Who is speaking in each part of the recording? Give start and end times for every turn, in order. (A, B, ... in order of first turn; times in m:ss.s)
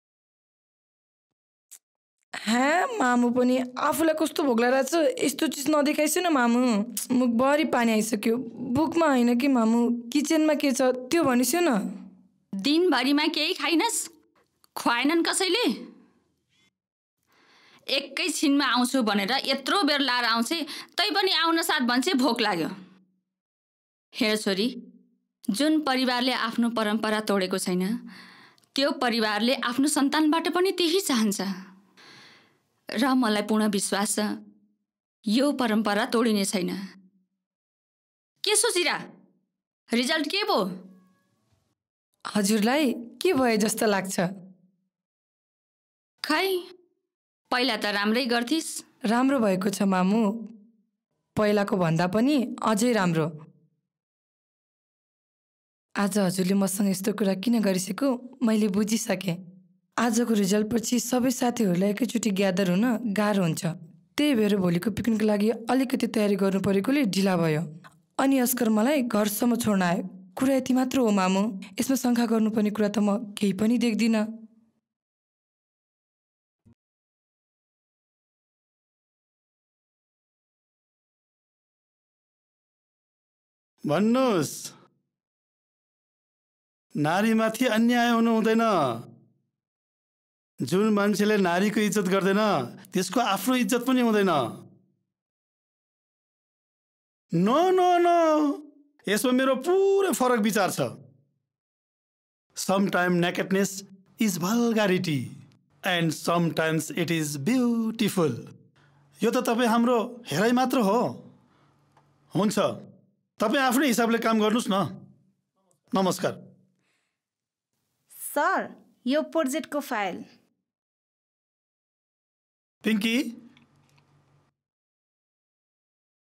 0:02.4-0:11.8 A
0:12.6-0:14.1 B
0:14.8-0:15.8 B
0:17.9-0:22.7 B
0:24.2-0:24.7 B
0:25.5-0:27.9 B
0:28.8-0:31.5 B
0:33.0-0:34.3 B
0:35.3-0:36.8 B
0:38.4-0:39.0 B
0:39.9-0:40.8 B
0:42.3-0:44.3 A
0:46.2-0:46.6 B
0:47.5-0:48.8 B
0:49.1-0:50.3 A
0:51.4-0:53.3 A
0:56.0-0:59.4 A
1:00.0-1:07.7 A
1:08.2-1:14.2 A
1:23.9-1:24.7 C
1:27.0-1:28.7 C
1:30.7-1:34.4 C
1:37.4-1:38.6 C
1:39.1-1:40.9 C
1:42.6-1:45.3 C
1:45.9-1:48.4 C
1:49.2-1:51.2 C
1:52.3-1:52.8 C
1:53.4-1:54.9 C
1:55.9-1:56.4 C
1:58.3-2:00.2 D
2:02.8-2:03.3 C